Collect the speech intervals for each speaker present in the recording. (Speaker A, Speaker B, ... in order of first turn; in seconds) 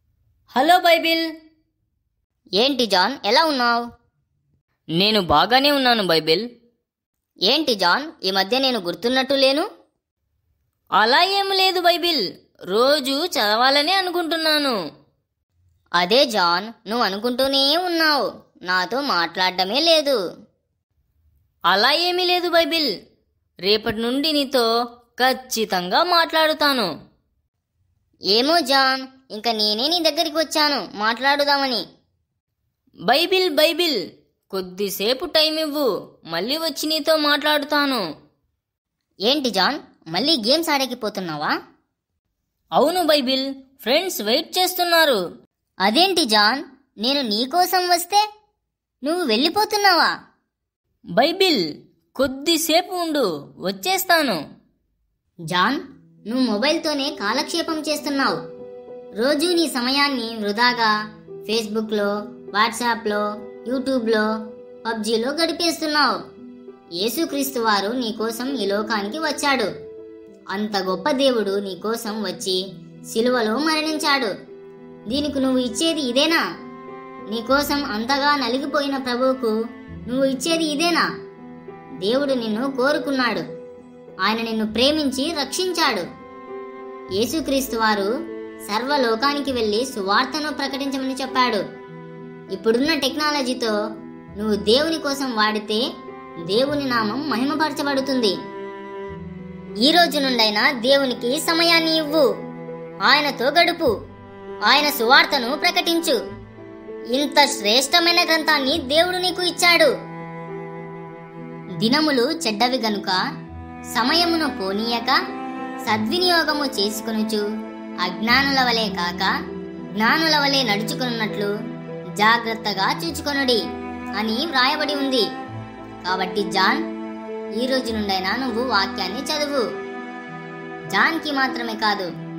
Speaker A: 0.5-1.3, 5.0-6.5, 11.0-14.8, 21.7-22.9, 23.7-26.9, 33.1-34.0, 34.5-38.0, 42.8-45.2, 51.2-51.6, 52.2-54.4
Speaker B: 2.6-3.8, 7.5-9.7, 16.0-20.2, 28.3-31.8, 39.3-41.5, 45.9-48.2, 49.0-50.1, 55.5-58.4, 59.2-60.9, 61.5-64.3, 64.8-66.1, 67.0-69.7, 70.5-72.6, 73.1-74.3, 75.1-76.4, 77.3-79.6, 80.1-81.1, 82.0-83.5, 84.2-86.1, 87.2-88.1, 88.7-91.6, 92.5-93.8, 94.4-95.8, 96.5-98.4, 99.9-102.3, 103.1-103.9, 104.7-106.2, 107.2-109.9, 111.8-113.2, 114.0-115.2, 115.9-117.5, 118.0-119.3, 120.0-121.5, 122.2-123.6, 124.2-125.3, 126.0-126.8, 127.6-129.7, 130.9-132.1